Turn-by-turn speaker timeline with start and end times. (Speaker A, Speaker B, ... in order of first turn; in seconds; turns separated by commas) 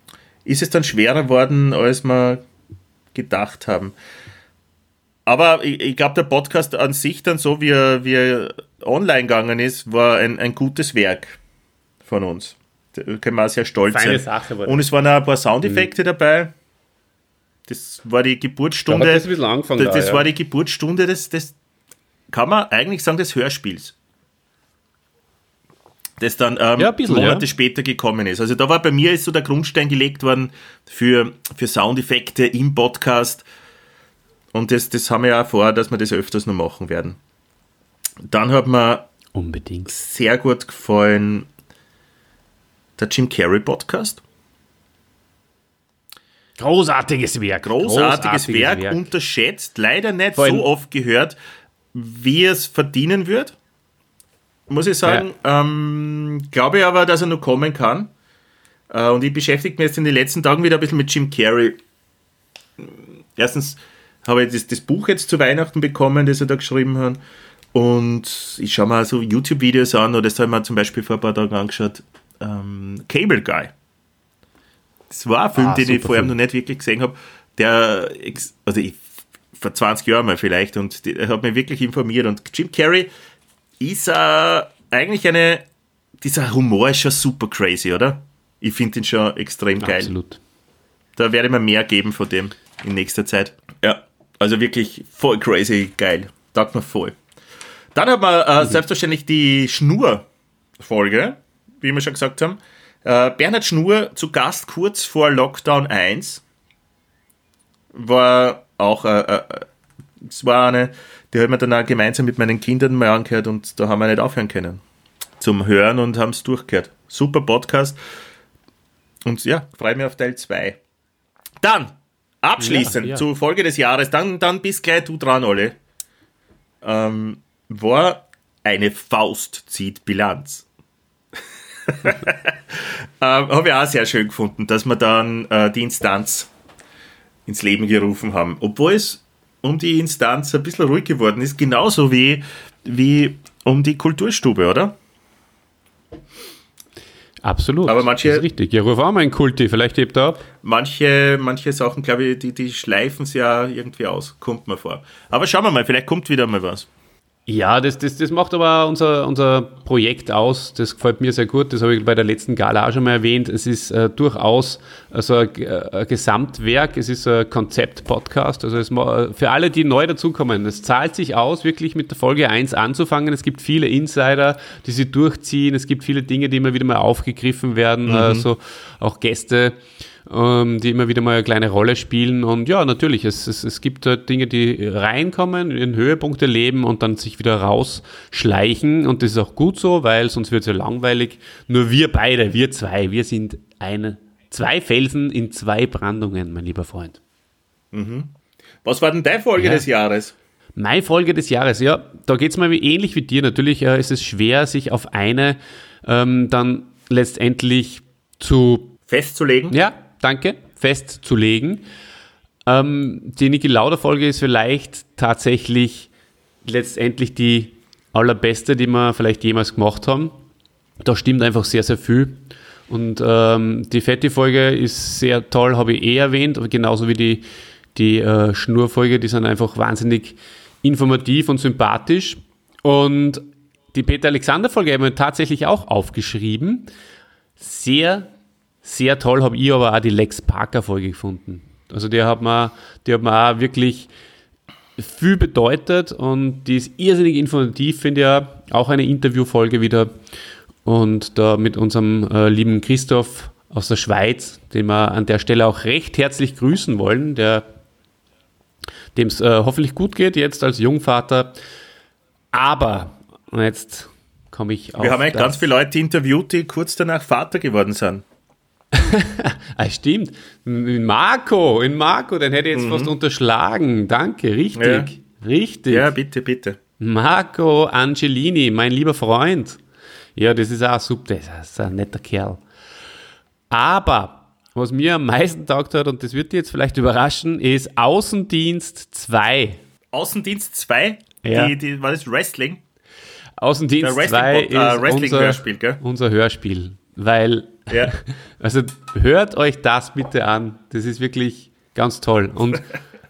Speaker A: 0.5-2.4, Speaker A: 3.1-4.0, Speaker A: 5.3-11.4, Speaker A: 12.1-16.5, Speaker B: 13.9-14.8, Speaker B: 15.6-15.9, Speaker A: 17.7-21.5, Speaker B: 18.9-20.3, Speaker A: 22.3-23.9, Speaker A: 26.2-33.5, Speaker B: 26.8-27.5, Speaker A: 34.5-37.2, Speaker A: 38.3-39.1, Speaker B: 39.4-39.9, Speaker A: 39.9-41.5, Speaker A: 43.0-44.2, Speaker B: 46.6-49.1, Speaker A: 47.7-51.4, Speaker B: 50.4-50.7, Speaker A: 51.9-53.5, Speaker A: 54.7-58.1, Speaker A: 58.9-61.8, Speaker A: 62.8-67.2, Speaker A: 67.7-73.7, Speaker A: 75.1-79.0, Speaker B: 75.5-76.4, Speaker A: 79.5-83.1, Speaker A: 83.8-85.7, Speaker A: 86.2-90.1, Speaker B: 89.8-90.4, Speaker A: 91.2-97.2, Speaker A: 98.0-100.3, Speaker A: 100.8-106.4, Speaker A: 107.9-109.7, Speaker A: 110.2-114.8, Speaker A: 115.4-118.0, Speaker A: 119.3-120.8, Speaker A: 121.6-125.8, Speaker B: 122.6-123.2, Speaker A: 126.8-130.7, Speaker A: 131.9-136.5, Speaker A: 137.5-144.9, Speaker B: 147.4-150.4, Speaker A: 147.9-148.4, Speaker A: 150.6-156.9, Speaker B: 157.5-197.2, Speaker A: 178.1-178.5, Speaker A: 197.9-198.3, Speaker A: 198.8-200.3, Speaker B: 199.6-199.8, Speaker B: 200.8-208.9, Speaker A: 209.1-209.8, Speaker B: 209.7-211.9, Speaker B: 212.7-216.1, Speaker B: 216.7-220.3, Speaker B: 221.0-236.9, Speaker B: 237.6-238.3, Speaker B: 238.8-244.1, Speaker B: 245.0-250.1, Speaker B: 250.8-257.6, Speaker B: 259.1-261.6, Speaker B: 262.5-265.7, Speaker A: 265.0-268.2, Speaker B: 268.9-276.1, Speaker A: 272.8-273.1, Speaker A: 274.8-275.1, Speaker A: 275.9-276.8, Speaker B: 277.0-279.8, Speaker B: 280.4-282.6, Speaker B: 283.7-289.8, Speaker A: 290.1-292.8, Speaker B: 291.4-291.7, Speaker B: 293.6-302.9, Speaker A: 294.0-296.0